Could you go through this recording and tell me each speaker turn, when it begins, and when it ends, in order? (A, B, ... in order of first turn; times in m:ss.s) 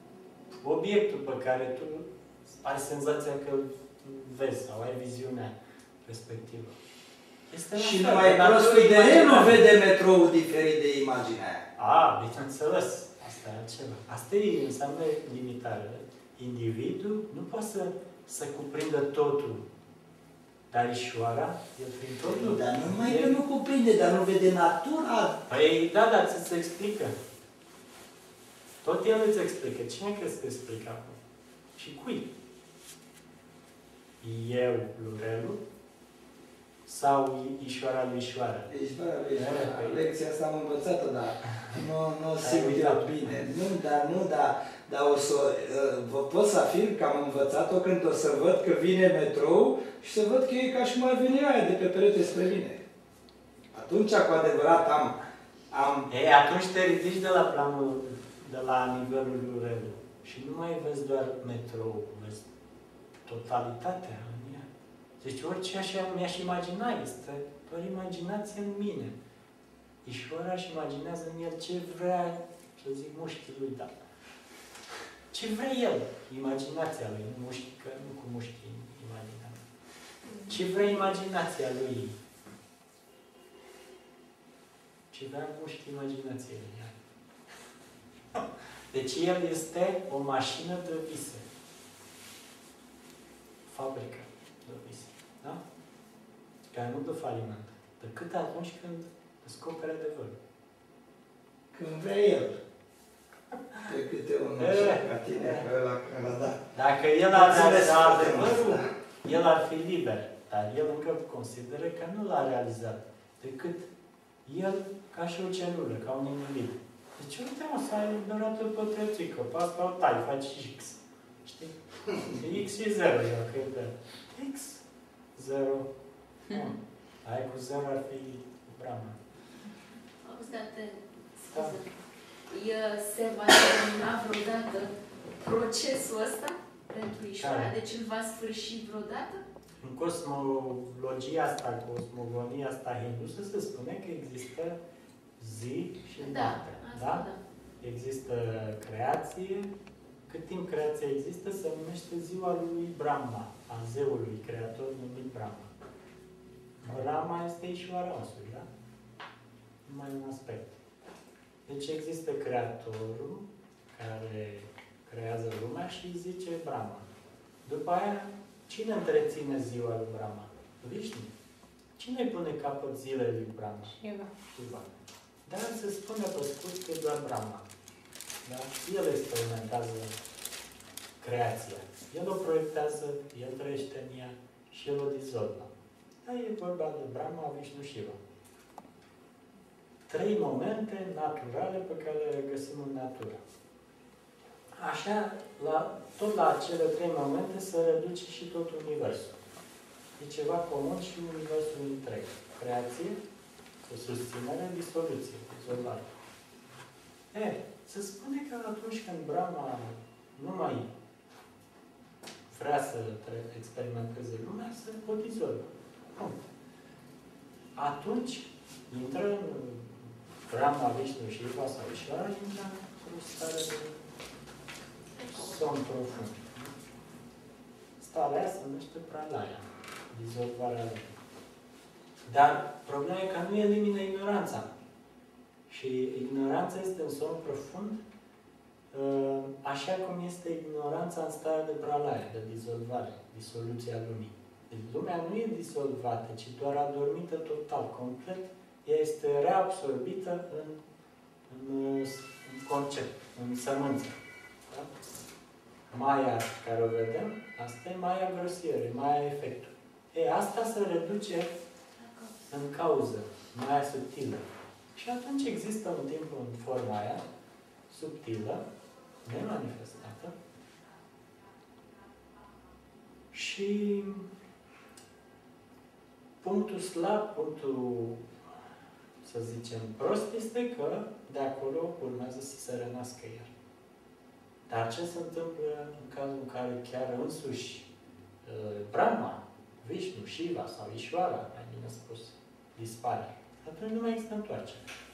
0:00.5-0:06.8 A
0:07.5-0:09.7 A
0:07.8-0:11.6 B
0:11.8-0:19.6 A
0:20.7-0:23.4 A
0:22.2-0:25.4 B
0:25.5-0:27.2 A
0:28.8-0:31.2 A
0:31.8-0:32.3 A
0:34.2-0:35.6 A
0:36.8-0:38.7 A
0:38.7-0:52.8 B
0:39.3-0:40.0 A
0:42.4-0:43.5 A
0:53.7-0:55.2 B
0:55.7-0:56.1 B
0:56.1-1:02.4 A
1:03.2-1:04.7 A
1:05.2-1:09.2 A
1:10.0-1:13.9 A
1:15.3-1:19.6 A
1:20.5-1:22.2 A
1:25.1-1:27.0 A
1:28.3-1:31.4 A
1:33.7-1:35.6 A
1:36.7-1:40.4 A
1:41.7-1:42.6 B
1:43.8-1:46.6 B
1:44.6-1:45.7 A
1:46.7-1:53.9 A
1:47.3-1:48.9 B
1:54.4-2:04.8 A
2:05.3-2:05.9 A
2:06.5-2:09.2 A
2:10.2-2:11.9 C
2:12.5-2:19.4 C
2:17.4-2:17.8 A
2:19.8-2:24.8 A
2:25.4-2:27.3 A
2:26.2-2:27.4 C
2:27.8-2:29.7 A
2:30.3-2:35.7 A
2:36.8-2:38.7 A
2:39.8-2:40.8 A
2:41.7-2:47.1 A
2:47.6-2:51.3 A
2:52.0-2:54.9 A
2:55.5-2:57.6 A
2:58.4-3:00.2 A
3:01.2-3:05.7 A
3:06.2-3:08.2 A
3:10.1-3:13.4 A
3:14.8-3:19.4 A
3:20.2-3:23.2 A
3:23.8-3:26.1 A
3:27.3-3:30.9 A
3:32.5-3:36.4 A
3:37.8-3:44.0 A
3:45.3-3:46.7 A
3:48.0-3:51.1 A
3:52.2-3:54.7 A
3:55.7-3:58.0 A
3:58.9-4:10.8 A
4:11.5-4:14.2 A
4:15.9-4:21.6 A
4:22.0-4:22.3 C
4:22.5-4:27.2 A
4:27.9-4:28.6 A
4:29.2-4:30.4 A
4:33.3-4:34.3 A
4:36.4-4:38.2 A
4:39.2-4:43.5 A
4:44.7-4:47.9 A
4:48.4-4:54.8 A